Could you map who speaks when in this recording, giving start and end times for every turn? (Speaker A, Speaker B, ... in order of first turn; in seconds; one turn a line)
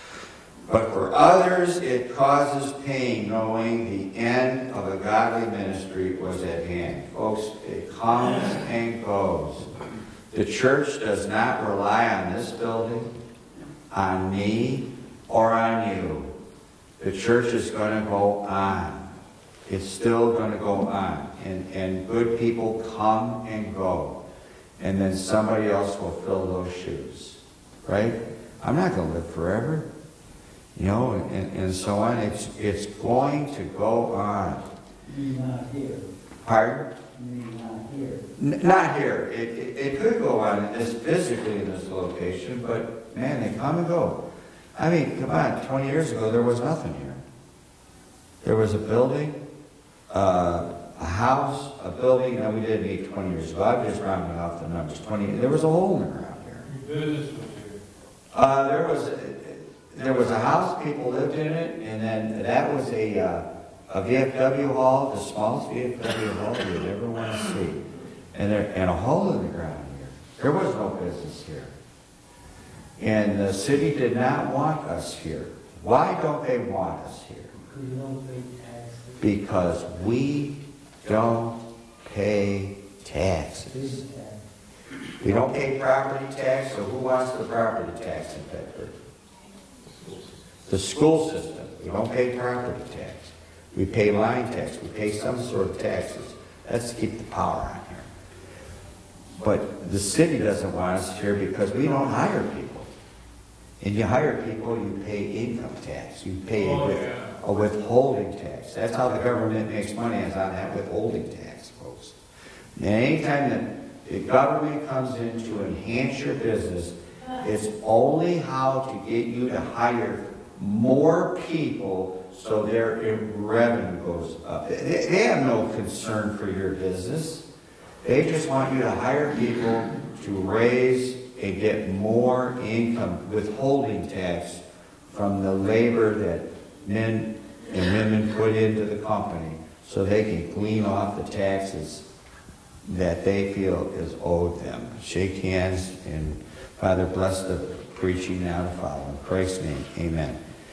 Speaker A: 0.7-9.7
Speaker A: 10.3-13.1
Speaker A: 13.9-16.3
Speaker A: 17.0-19.1
Speaker A: 19.6-24.2
Speaker A: 24.8-29.9
Speaker A: 30.7-34.7
Speaker B: 35.0-36.1
Speaker A: 36.4-37.0
Speaker B: 37.1-38.2
Speaker A: 38.4-44.2
Speaker A: 44.8-47.2
Speaker A: 48.4-49.4
Speaker A: 50.1-56.6
Speaker C: 56.6-57.8
Speaker A: 58.3-71.7
Speaker A: 73.0-77.5
Speaker B: 77.6-79.3
Speaker A: 79.2-84.0
Speaker B: 83.7-84.4
Speaker A: 85.2-88.9
Speaker A: 90.7-98.1
Speaker A: 99.4-102.9
Speaker A: 103.8-112.2
Speaker C: 106.5-107.3
Speaker A: 112.8-127.4
Speaker A: 128.0-142.1
Speaker A: 142.8-150.4